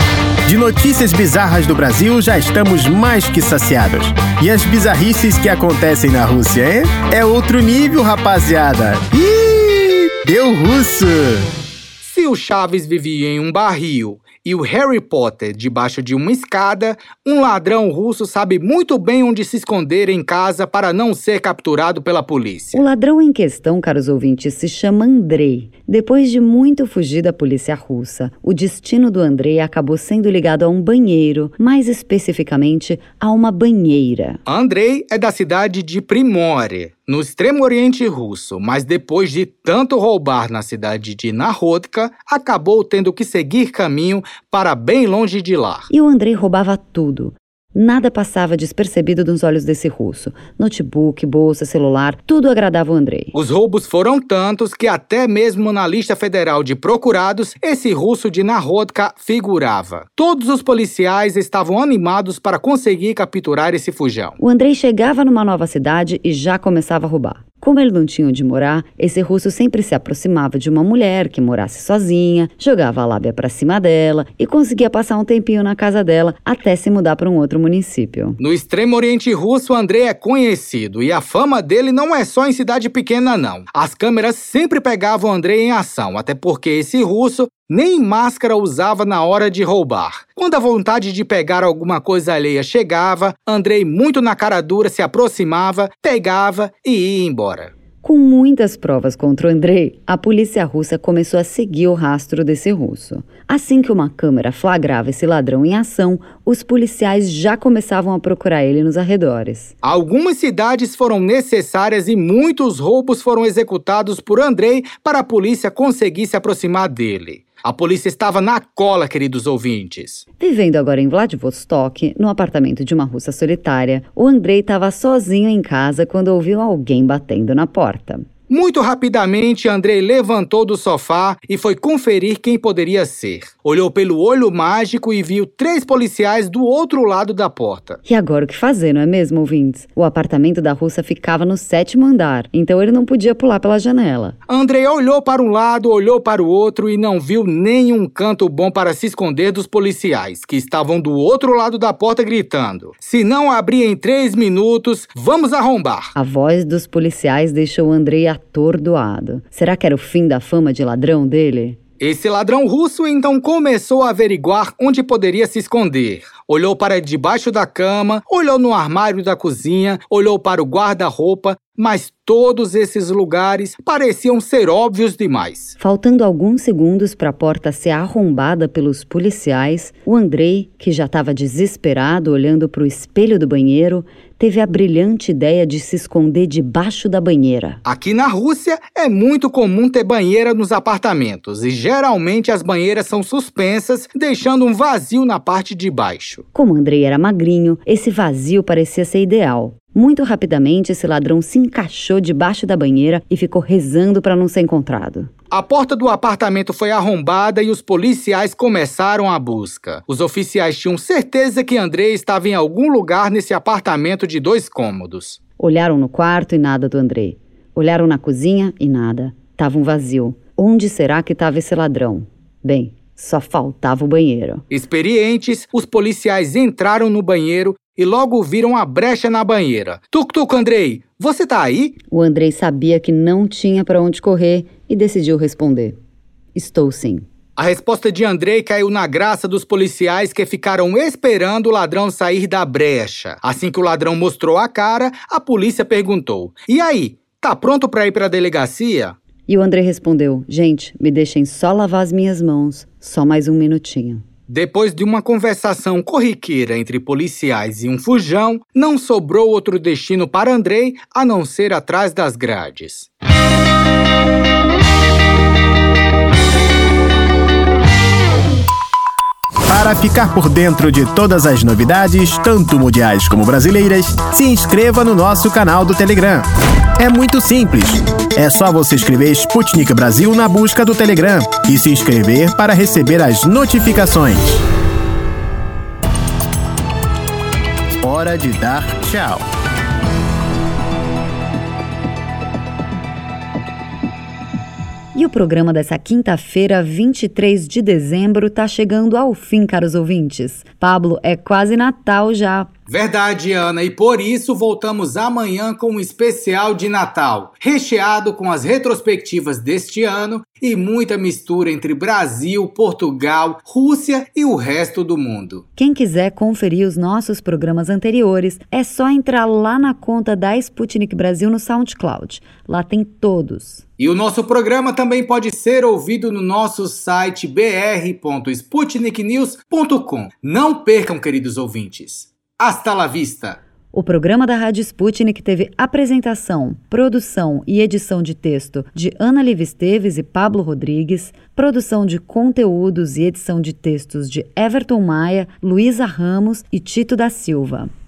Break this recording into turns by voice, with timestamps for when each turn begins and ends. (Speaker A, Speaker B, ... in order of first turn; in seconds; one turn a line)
Speaker A: 0.5-11.5
Speaker B: 12.0-22.8
Speaker C: 22.7-34.4
Speaker B: 34.5-45.9
Speaker C: 45.9-53.3
Speaker B: 53.3-64.3
Speaker C: 64.4-78.4
Speaker B: 78.4-97.7
Speaker C: 98.0-109.7
Speaker B: 109.8-120.2
Speaker C: 120.4-128.3
Speaker B: 128.5-138.0
Speaker C: 138.1-144.4
Speaker B: 144.5-156.1
Speaker C: 156.2-161.8
Speaker B: 162.0-175.7
Speaker C: 175.8-187.8
Speaker B: 187.8-196.4
Speaker C: 196.5-205.3
Speaker B: 205.5-215.4
Speaker C: 215.6-224.6
Speaker B: 224.7-232.0
Speaker C: 232.1-236.0
Speaker C: 236.5-237.2
Speaker B: 237.6-249.2
Speaker C: 249.5-254.2
Speaker B: 254.5-263.1
Speaker A: 269.7-276.5
Speaker A: 277.0-284.6
Speaker A: 288.0-289.4
Speaker C: 295.1-302.7
Speaker B: 302.9-315.6
Speaker C: 315.8-323.8
Speaker B: 324.0-333.6
Speaker C: 333.9-347.9